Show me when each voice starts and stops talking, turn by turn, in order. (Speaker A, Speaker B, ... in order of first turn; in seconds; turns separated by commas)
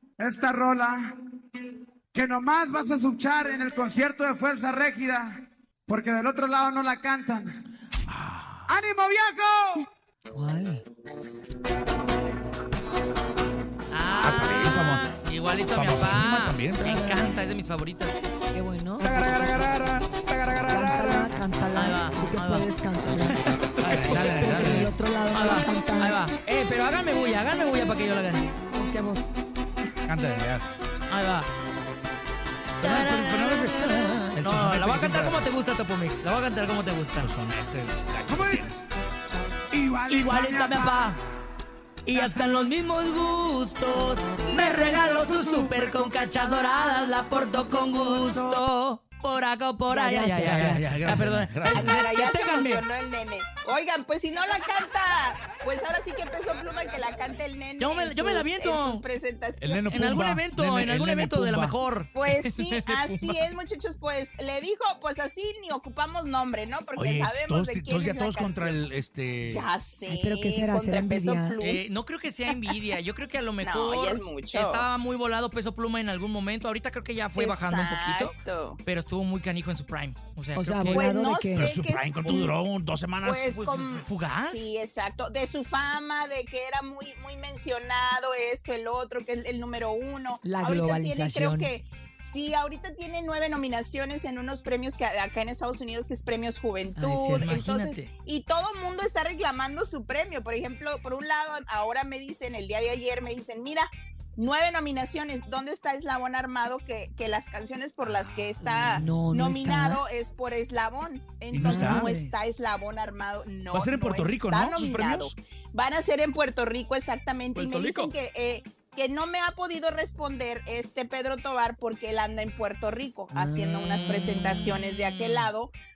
Speaker A: 0.2-1.1, Speaker A: 2.1-5.3, Speaker A: 5.9-7.5, Speaker B: 8.1-8.7, Speaker A: 8.7-9.8, Speaker C: 10.3-10.8, Speaker D: 13.9-18.2, Speaker B: 14.1-15.0, Speaker B: 15.7-17.4, Speaker C: 18.5-19.2, Speaker B: 19.0-21.3, Speaker C: 20.7-23.4, Speaker D: 21.7-28.5, Speaker B: 23.8-24.9, Speaker C: 24.1-26.2, Speaker C: 28.7-29.3, Speaker B: 30.1-30.7, Speaker D: 31.1-31.5, Speaker B: 32.8-35.5, Speaker D: 32.8-37.3, Speaker B: 37.2-38.8, Speaker A: 38.3-38.6, Speaker A: 39.7-41.1, Speaker D: 40.1-41.2, Speaker D: 42.0-52.8, Speaker A: 42.1-42.6, Speaker A: 47.8-48.4, Speaker C: 49.9-51.0, Speaker B: 50.4-52.0, Speaker E: 51.7-59.9, Speaker D: 57.8-59.0, Speaker B: 59.6-61.8, Speaker D: 59.9-63.4, Speaker E: 62.1-68.8, Speaker B: 67.0-69.7, Speaker E: 69.5-71.8, Speaker C: 70.1-71.6, Speaker D: 71.6-81.0, Speaker E: 72.5-72.7, Speaker E: 73.6-74.9, Speaker E: 77.3-78.8, Speaker C: 80.5-81.7, Speaker E: 80.9-82.5, Speaker B: 81.5-83.4, Speaker E: 83.2-125.7, Speaker D: 83.4-84.7, Speaker C: 90.4-91.7, Speaker C: 97.0-97.7, Speaker D: 97.3-98.1, Speaker D: 108.0-109.0, Speaker C: 108.9-110.0, Speaker B: 111.5-112.0, Speaker C: 111.6-112.3, Speaker B: 113.7-115.3, Speaker B: 117.5-117.9, Speaker D: 117.8-118.1, Speaker C: 123.3-123.9, Speaker D: 123.6-125.5